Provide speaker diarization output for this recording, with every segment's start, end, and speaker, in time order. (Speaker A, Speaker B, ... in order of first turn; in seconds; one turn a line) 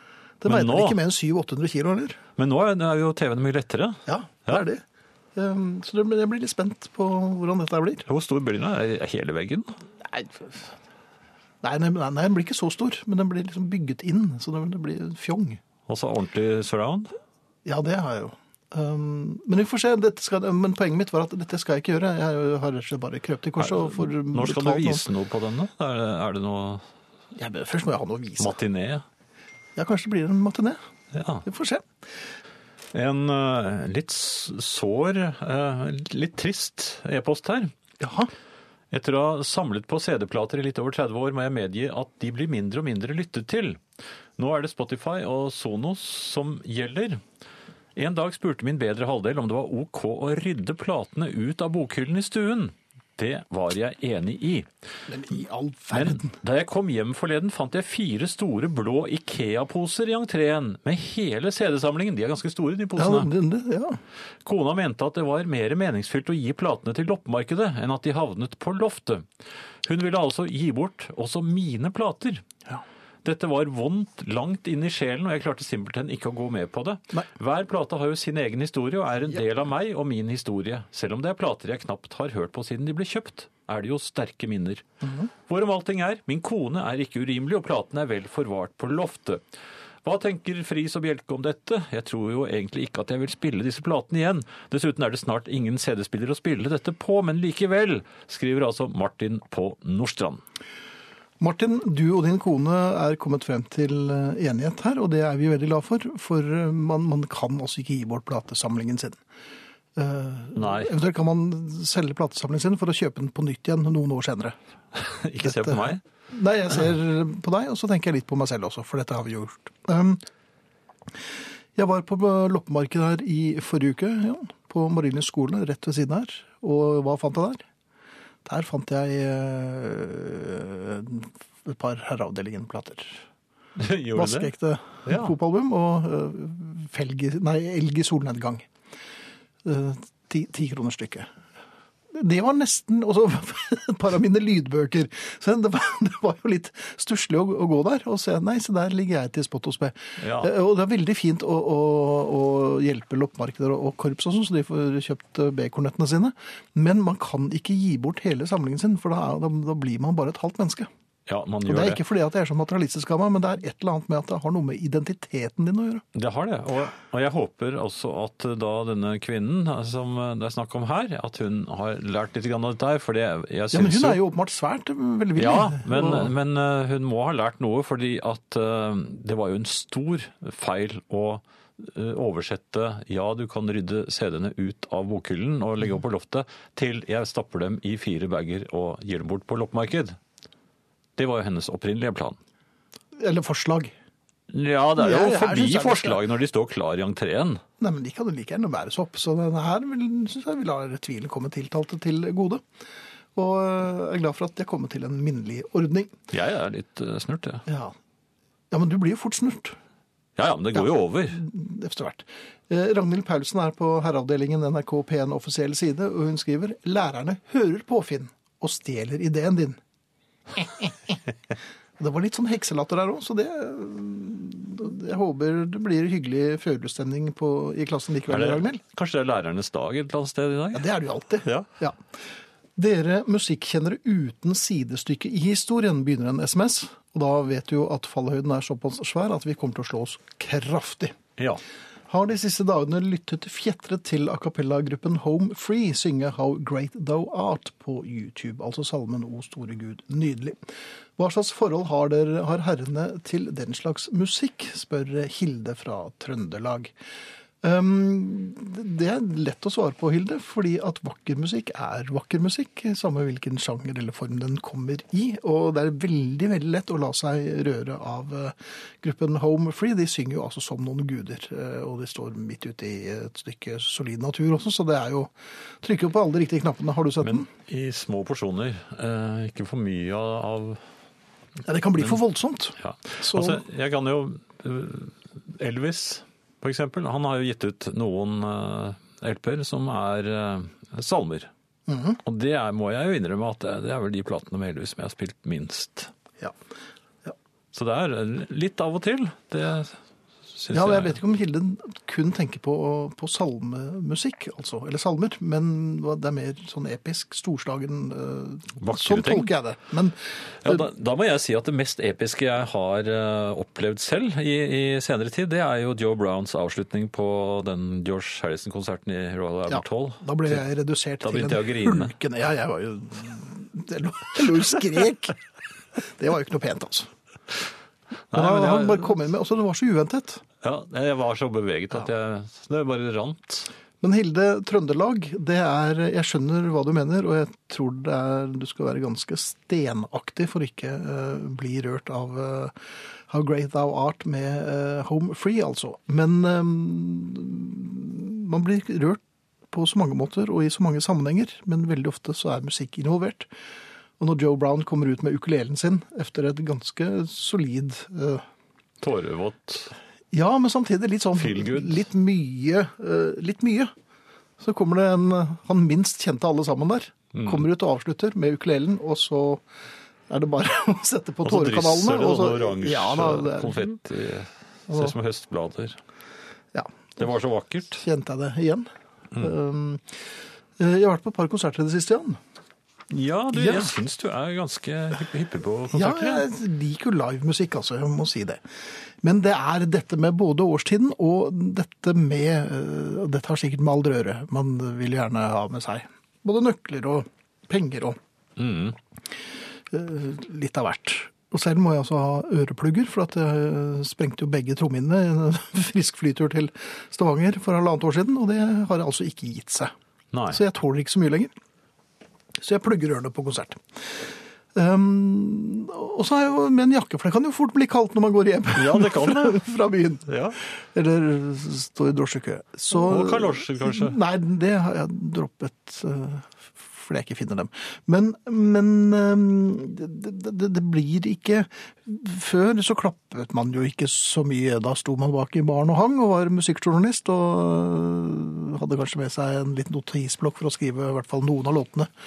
Speaker A: 0.4-2.2
Speaker B: 0.5-1.0
Speaker B: 2.4-4.6
Speaker A: 4.1-4.8
Speaker A: 5.3-8.1
Speaker B: 8.1-9.8
Speaker A: 10.0-10.7
Speaker A: 11.6-15.6
Speaker B: 15.9-17.1
Speaker A: 17.6-25.1
Speaker B: 23.6-26.8
Speaker A: 27.4-28.6
Speaker B: 28.4-29.1
Speaker A: 29.8-30.8
Speaker B: 31.1-31.4
Speaker A: 31.4-31.9
Speaker B: 32.9-37.7
Speaker A: 38.0-38.3
Speaker B: 38.9-43.8
Speaker B: 44.4-47.2
Speaker B: 48.0-54.7
Speaker A: 55.1-56.4
Speaker B: 55.9-63.3
Speaker A: 63.0-64.0
Speaker B: 64.4-69.3
Speaker B: 69.8-72.4
Speaker B: 73.2-84.8
Speaker A: 85.0-85.3
Speaker B: 85.4-89.4
Speaker B: 90.0-100.4
Speaker A: 101.4-109.2
Speaker A: 110.0-114.6
Speaker B: 110.6-110.9
Speaker B: 114.9-116.0
Speaker A: 115.4-120.2
Speaker A: 121.8-127.6
Speaker A: 128.4-133.2
Speaker B: 133.8-134.5
Speaker A: 134.1-138.7
Speaker B: 135.1-135.3
Speaker A: 139.6-141.3
Speaker A: 142.1-160.9
Speaker B: 150.2-150.5
Speaker B: 161.3-162.0
Speaker A: 161.7-166.0
Speaker B: 166.1-174.2
Speaker A: 173.7-176.3
Speaker B: 175.4-190.2
Speaker B: 191.2-192.4
Speaker A: 193.2-193.9
Speaker B: 194.5-197.6
Speaker A: 195.0-196.2
Speaker A: 197.8-202.6
Speaker A: 203.4-206.2
Speaker B: 206.3-207.7
Speaker A: 207.7-207.9
Speaker A: 208.7-209.8
Speaker B: 210.4-211.4
Speaker A: 210.8-219.8
Speaker A: 220.6-220.9
Speaker A: 222.0-228.8
Speaker B: 228.3-230.9
Speaker A: 230.7-232.0
Speaker B: 231.4-231.7
Speaker A: 232.8-241.2
Speaker A: 242.1-256.9
Speaker A: 257.6-277.5
Speaker B: 277.2-280.8
Speaker A: 281.6-283.6
Speaker B: 282.8-291.5
Speaker A: 291.9-292.2
Speaker B: 292.2-296.1
Speaker B: 297.7-300.0
Speaker B: 300.5-301.2
Speaker A: 300.7-310.9
Speaker B: 308.8-309.5
Speaker B: 310.6-320.6
Speaker A: 319.7-325.4
Speaker B: 321.2-322.1
Speaker A: 326.0-327.1
Speaker B: 328.3-329.2
Speaker A: 328.3-330.4
Speaker B: 330.6-333.7
Speaker A: 334.0-342.7
Speaker A: 343.3-353.5
Speaker A: 354.2-358.4
Speaker B: 359.0-359.9
Speaker A: 360.3-363.9
Speaker B: 361.4-362.1
Speaker A: 364.6-369.6
Speaker B: 367.3-367.6
Speaker A: 370.3-373.9
Speaker B: 371.4-376.0
Speaker A: 376.7-377.2
Speaker B: 377.2-378.0
Speaker A: 378.0-380.1
Speaker A: 380.8-382.4
Speaker B: 383.1-386.4
Speaker A: 383.5-384.0
Speaker A: 385.9-388.6
Speaker A: 389.2-398.2
Speaker B: 398.6-399.0
Speaker A: 399.9-409.9
Speaker B: 410.3-410.6
Speaker A: 410.5-411.5
Speaker A: 412.6-442.1
Speaker B: 418.8-419.6
Speaker B: 420.3-420.6
Speaker B: 422.9-424.2